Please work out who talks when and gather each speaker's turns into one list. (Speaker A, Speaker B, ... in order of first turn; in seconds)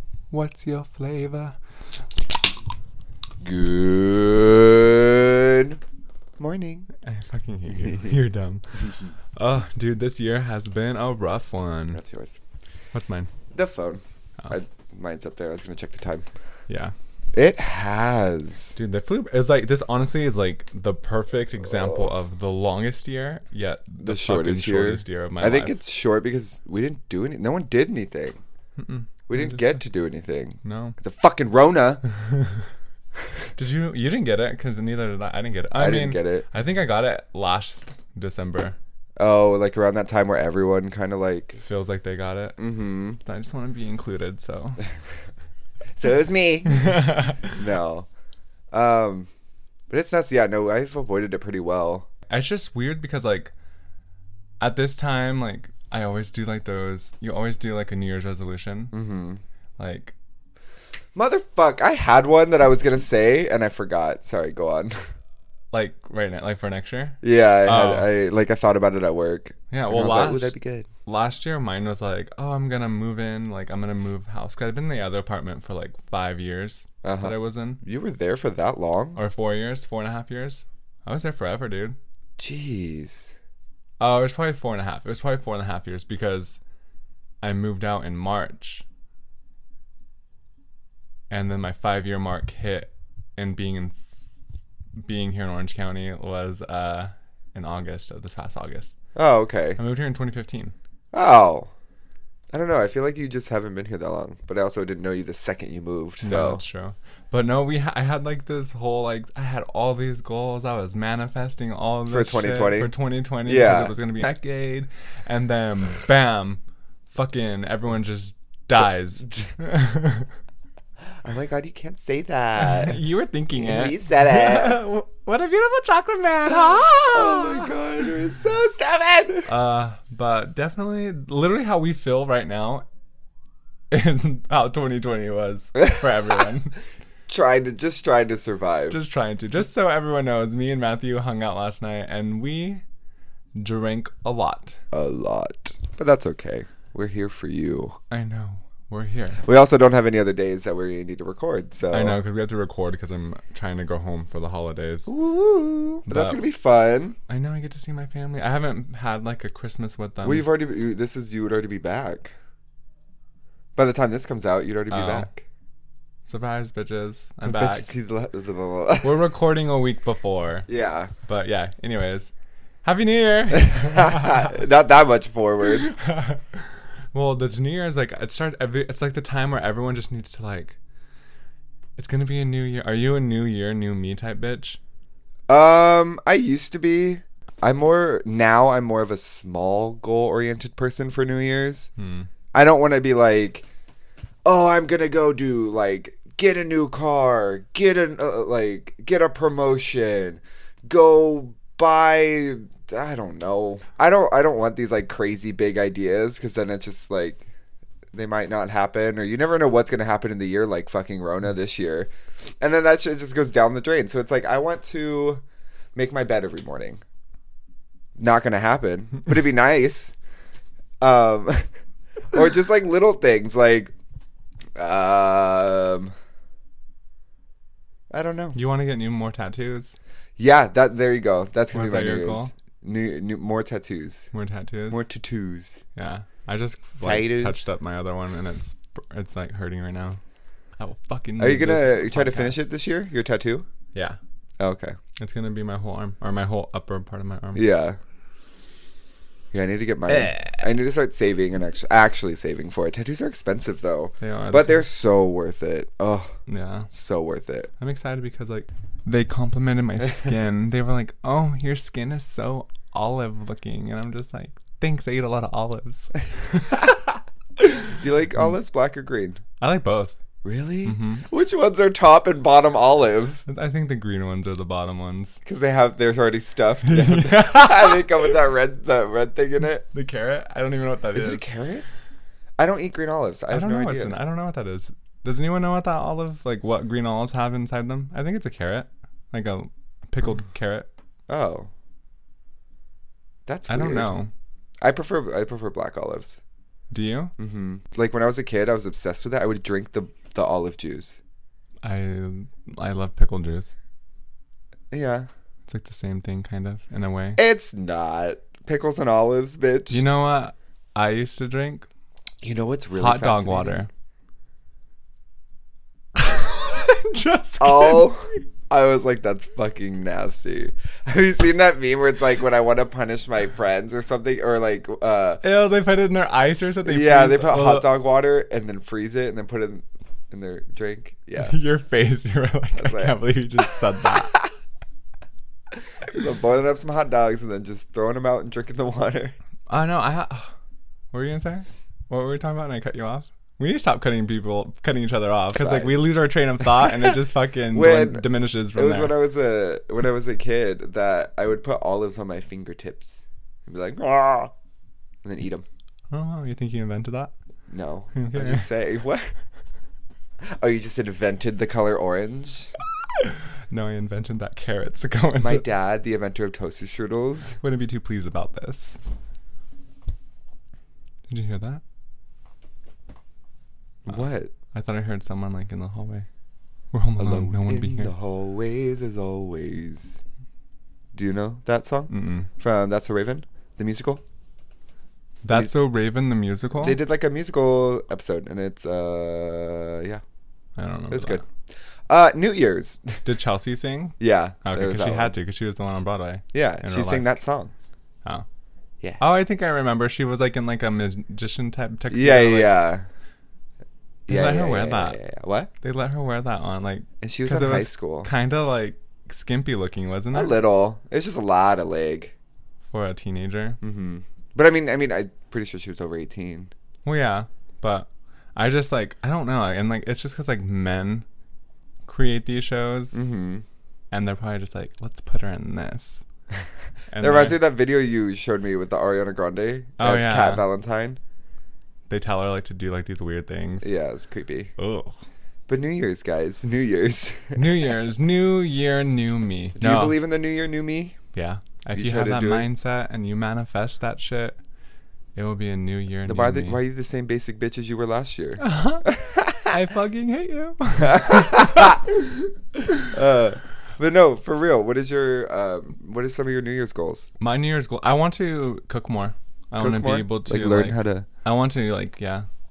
Speaker A: 0.3-1.6, 7.0-8.8, 9.3-12.0, 12.9-13.3, 16.7-16.9, 18.7-25.8, 28.8-29.8, 30.6-31.0, 32.2-32.6, 33.5-38.8, 41.6-42.6, 43.2-44.8, 46.7-47.6, 52.3-53.5, 54.6-58.9, 59.8-60.1, 65.7-68.1, 69.7-70.5, 71.0-77.8, 79.1-82.0, 84.0-86.6, 87.4-88.8, 91.3-94.0, 95.0-99.0, 99.8-100.7, 106.2-116.6, 117.1-120.3, 122.6-127.8, 129.5-132.8, 133.9-136.8, 138.9-142.8, 143.6-144.8, 148.1-149.4, 151.9-155.1, 156.1-156.4, 157.3-160.5, 164.9-165.3, 166.3-167.9, 169.0-170.7, 171.2-172.3, 172.8-174.6, 175.6-180.8, 182.0-184.8, 192.0-192.3, 228.5-229.9, 231.7-232.5, 234.3-235.0, 235.9-240.2, 240.8-242.7, 243.9-244.2, 245.2-247.6, 250.1-250.6, 254.2-254.8, 256.5-256.9, 257.8-267.0, 267.6-268.5, 269.6-270.2, 270.8-271.3, 273.4-275.4, 276.8-278.2, 279.9-281.4, 283.5-290.9, 293.7-294.3, 296.9-297.3, 301.8-303.7, 305.7-307.4, 309.9-311.9, 312.9-313.9, 316.1-318.4, 325.4-327.9, 331.4-334.4, 339.7-340.5, 341.1-349.1, 356.1-357.3, 358.1-358.7, 363.2-365.6, 367.6-369.0, 371.3-371.8, 374.7-376.3, 376.9-378.1, 382.1-382.5, 385.4-387.0, 390.8-391.4, 393.2-397.3, 399.2-402.8, 404.3-405.2, 405.8-410.6, 412.9-413.8, 417.0-421.2, 422.1-423.2, 424.1-426.2, 427.1-427.6, 430.0-430.6, 432.1-433.9, 434.8-435.1, 437.5-440.2, 441.3-444.6, 445.3-446.8, 448.6-449.1, 449.6-452.1, 457.4-462.4
Speaker B: 3.4-5.8, 6.4-6.9, 7.7-8.2, 11.9-12.4, 13.5-16.2, 17.3-18.7, 24.0-28.4, 29.3-32.0, 35.8-36.5, 39.2-41.6, 42.6-43.2, 46.0-48.1, 48.7-49.3, 49.9-52.1, 58.9-59.4, 61.1-65.0, 67.2-70.9, 77.0-79.2, 82.4-83.3, 99.1-99.8, 101.1-101.7, 102.5-106.6, 112.1-112.9, 113.4-113.9, 121.2-123.0, 123.6-124.8, 127.1-129.5, 137.3-139.0, 144.9-148.0, 149.4-152.2, 155.1-157.2, 160.2-162.3, 163.8-165.4, 167.4-169.3, 170.7-171.1, 173.5-175.9, 185.5-191.9, 192.5-193.7, 194.4-207.4, 208.1-212.1, 212.6-215.4, 215.9-217.0, 218.2-220.1, 221.0-221.7, 222.3-223.9, 224.8-226.1, 228.1-228.6, 230.4-234.3, 234.9-235.8, 237.0-237.7, 241.4-243.7, 244.6-244.9, 247.5-248.0, 249.5-256.3, 256.9-257.7, 268.0-269.4, 270.4-273.4, 275.4-279.8, 281.1-281.8, 282.6-284.2, 291.3-291.7, 293.4-294.1, 294.8-296.4, 297.4-301.2, 304.9-305.3, 307.4-310.0, 312.4-313.8, 317.6-325.4, 326.8-331.6, 332.8-333.2, 336.0-339.3, 345.5-346.1, 346.6-347.2, 347.7-354.5, 355.2-355.6, 357.7-359.3, 360.4-362.7, 365.4-367.6, 374.0-374.5, 377.2-380.2, 381.1-384.2, 386.8-390.2, 391.1-391.4, 392.1-393.2, 394.2-395.3, 396.5-397.7, 402.1-403.1, 404.3-405.7, 407.2-408.3, 410.3-412.3, 413.8-416.7, 423.1-423.6, 427.2-431.2, 433.8-434.7, 435.7-437.7, 439.8-441.1, 441.9-442.7, 446.2-449.8, 451.0-452.0, 453.1-457.3, 459.8-461.3